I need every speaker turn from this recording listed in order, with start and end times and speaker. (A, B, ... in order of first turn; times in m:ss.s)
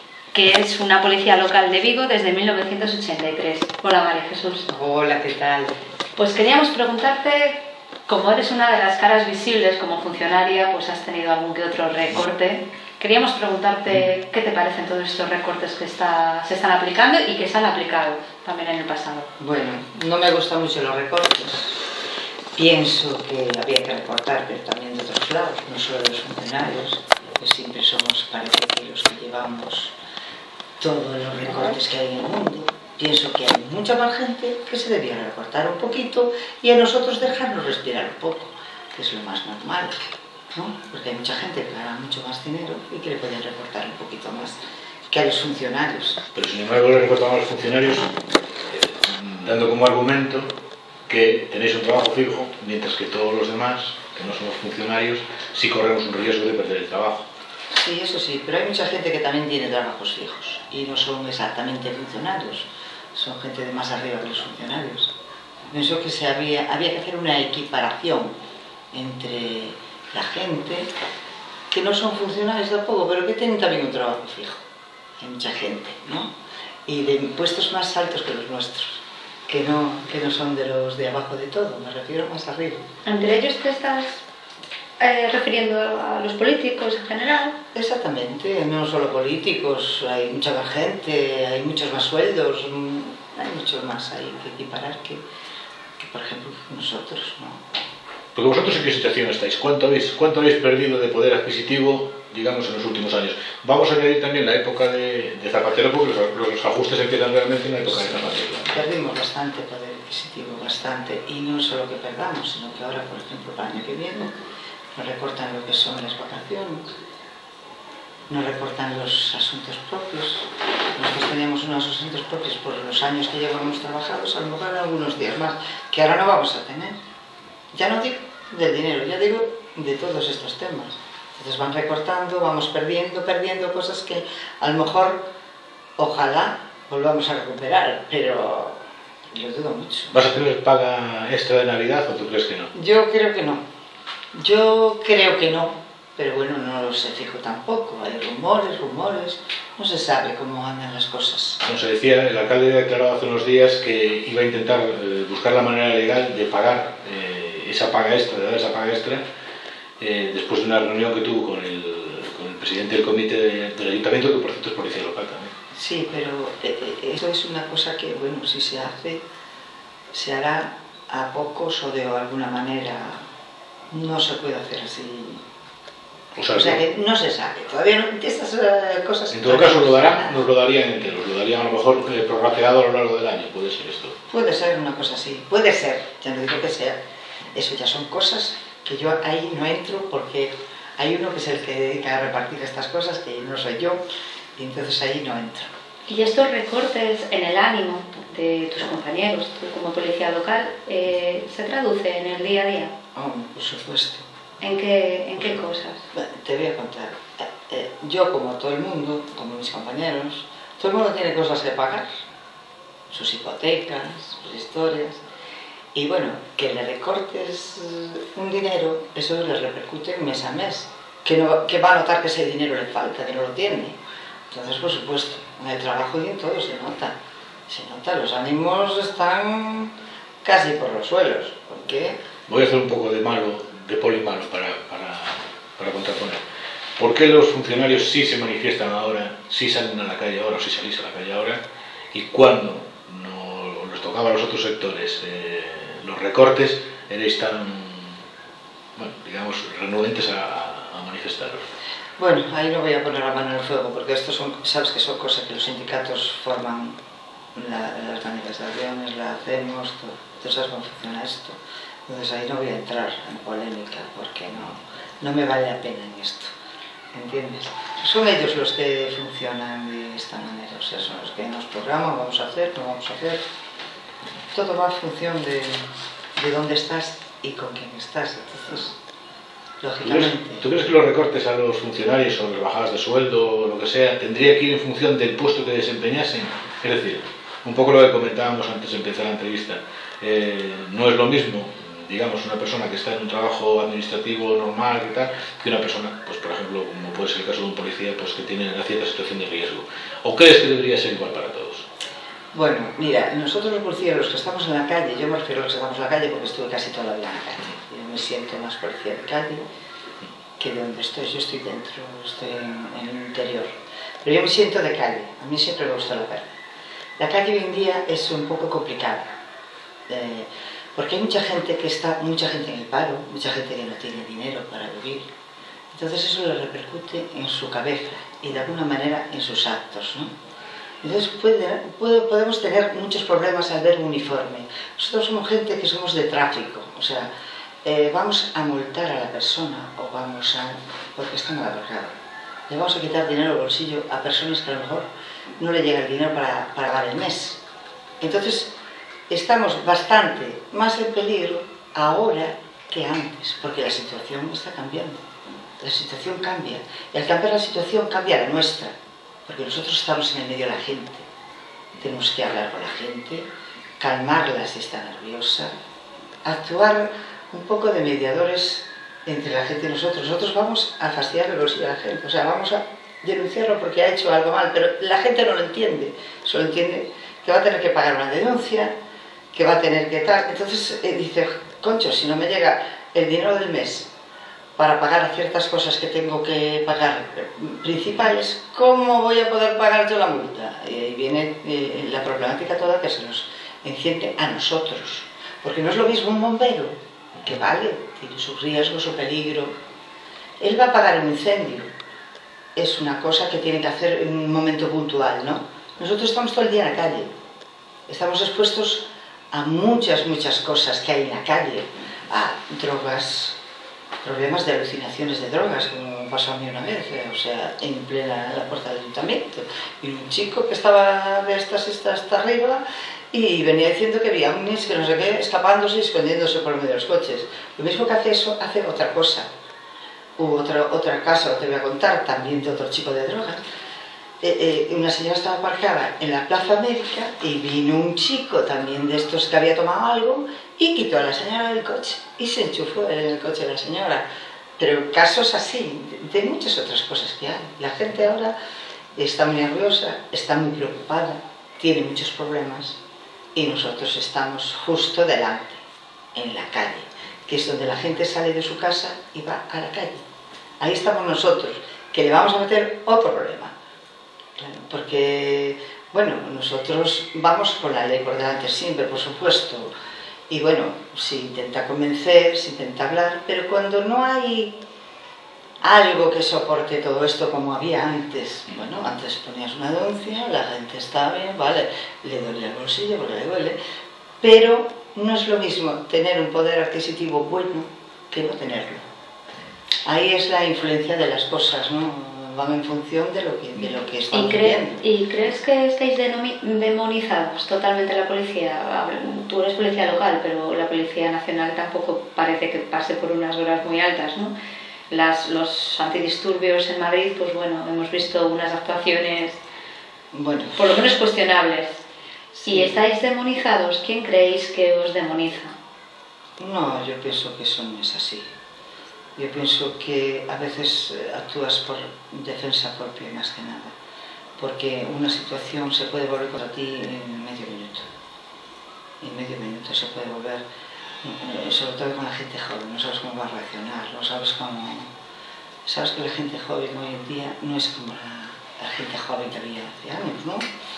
0:00.3-0:04.7 A
0:04.7-0:05.7 B
0:06.2-0:19.3 A
0:19.4-0:21.8 B
0:22.5-0:29.9 B
0:30.8-0:40.0 B
0:40.5-0:46.2 B
0:46.3-0:48.1 C
0:48.7-0:50.5 C
0:51.1-0:57.3 C
0:57.7-1:05.1 B
1:05.7-1:08.4 B
1:08.9-1:10.9 B
1:11.7-1:14.6 B
1:15.2-1:16.3 B
1:16.8-1:22.8 B
1:23.0-1:24.2 A
1:25.0-1:27.6 A
1:27.7-1:35.2 B
1:36.0-1:37.6 B
1:38.4-1:48.9 C
1:47.9-1:54.3 B
1:54.9-1:56.9 B
1:58.3-2:07.0 B
2:07.7-2:15.2 B
2:16.0-2:18.8 B
2:19.3-2:20.2 B
2:20.1-2:22.7 C
2:22.7-2:23.6 B
2:24.3-2:31.6 B
2:31.6-2:39.2 C
2:40.0-2:45.5 C
2:45.7-2:49.2 B
2:50.1-2:53.2 B
2:53.9-2:55.4 B
2:56.3-2:56.8 C
2:56.5-3:00.4 B
2:59.3-3:04.2 C
3:04.3-3:07.0 B
3:07.5-3:14.0 B
3:14.6-3:15.7 B
3:16.1-3:22.9 A
3:23.1-3:24.2 B
3:24.6-3:26.0 A
3:26.1-3:32.1 B
3:33.1-3:35.2 B
3:35.9-3:44.0 B
3:44.5-3:47.1 B
3:47.7-3:49.9 B
3:50.4-3:52.2 B
3:52.5-3:56.4 C
3:57.0-4:08.2 C
4:09.0-4:11.6 C
4:12.2-4:17.0 B
4:17.5-4:26.5 B
4:27.1-4:33.4 B
4:34.5-4:35.8 B
4:36.4-4:39.0 B
4:39.8-4:40.6 B
4:40.0-5:01.8 C
5:02.5-5:09.6 B
5:10.6-5:13.7 B
5:14.2-5:16.5 B
5:17.2-5:19.3 B
5:20.1-5:25.3 B
5:25.9-5:30.3 B
5:31.0-5:37.3 B
5:37.8-5:42.1 B
5:42.7-5:47.6 B
5:48.2-5:48.7 B
5:49.3-5:55.2 B
5:55.8-5:58.9 B
5:59.4-6:01.2 B
6:02.0-6:03.5 B
6:04.0-6:05.7 B
6:06.4-6:18.9 B
6:19.5-6:24.1 B
6:24.8-6:39.7 B
6:40.6-6:41.9 B
6:42.8-6:47.3 B
6:48.1-6:53.6 B
6:54.2-7:09.5 B
7:10.4-7:13.6 B
7:14.4-7:24.2 B
7:24.8-7:28.5 B
7:29.2-7:33.0 B
7:33.5-7:35.8 B
7:36.3-7:40.2 B
7:40.8-7:43.7 B
7:44.6-7:49.9 B
7:50.5-7:54.8 B
7:55.8-8:03.8 B
8:04.4-8:09.0 B
8:10.0-8:15.0 B
8:14.3-8:24.5 A
8:25.1-8:29.6 A
8:30.3-8:31.0 B
8:30.8-8:32.0 A
8:32.6-8:35.7 A
8:32.7-8:33.0 B
8:36.6-8:38.4 B
8:39.4-8:43.9 B
8:44.6-8:48.0 B
8:49.2-8:50.6 B
8:51.2-8:55.1 B
8:55.8-9:00.6 B